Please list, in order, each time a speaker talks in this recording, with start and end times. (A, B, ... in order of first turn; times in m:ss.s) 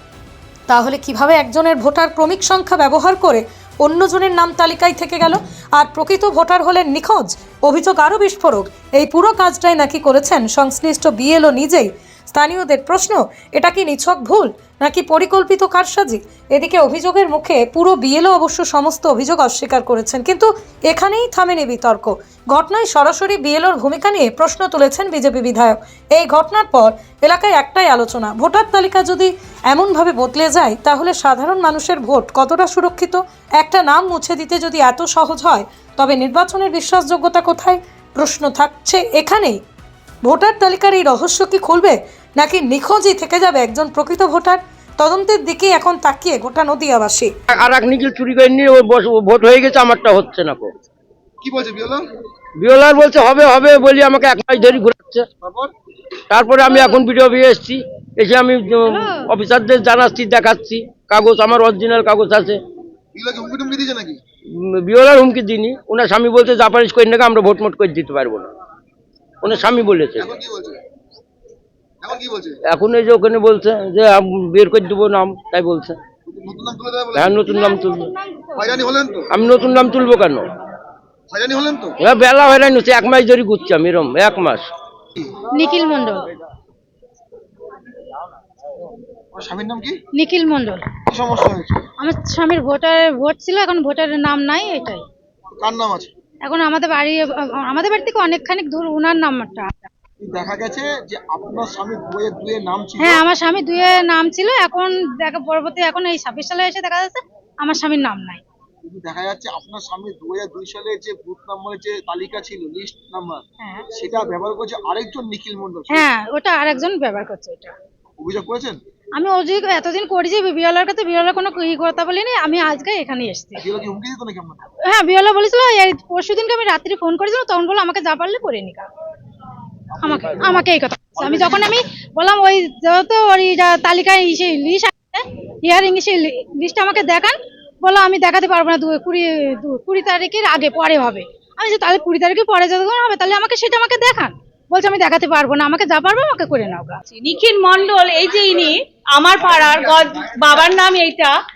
0:00.7-0:39.6 A
0:40.2-0:47.3 A
0:47.5-0:50.7 B
0:51.4-0:52.0 C
0:52.6-0:55.2 B
0:55.4-0:55.7 C
0:56.3-1:02.6 B
0:58.8-0:59.3 D
1:03.1-1:04.2 C
1:04.7-1:08.5 B
1:09.4-1:10.3 B
1:10.2-1:10.8 C
1:12.0-1:12.6 C
1:12.7-1:16.0 B
1:16.3-1:17.6 C
1:17.2-1:18.1 B
1:17.4-1:18.8 D
1:18.6-1:19.4 C
1:19.3-1:20.4 B
1:21.3-1:22.0 C
1:22.0-1:24.6 B
1:25.6-1:26.3 D
1:29.3-1:30.0 C
1:30.2-1:30.8 D
1:31.1-1:31.8 C
1:32.0-1:35.0 D
1:35.6-1:36.1 C
1:36.4-1:39.9 D
1:40.2-1:43.2 C
1:43.0-1:48.4 D
1:48.8-1:56.1 C
1:55.9-1:57.7 D
1:58.2-1:58.8 C
1:59.2-2:03.7 D
2:03.6-2:04.6 C
2:04.9-2:08.9 D
2:10.0-2:27.0 D
2:10.0-2:11.8 C
2:27.1-2:31.3 E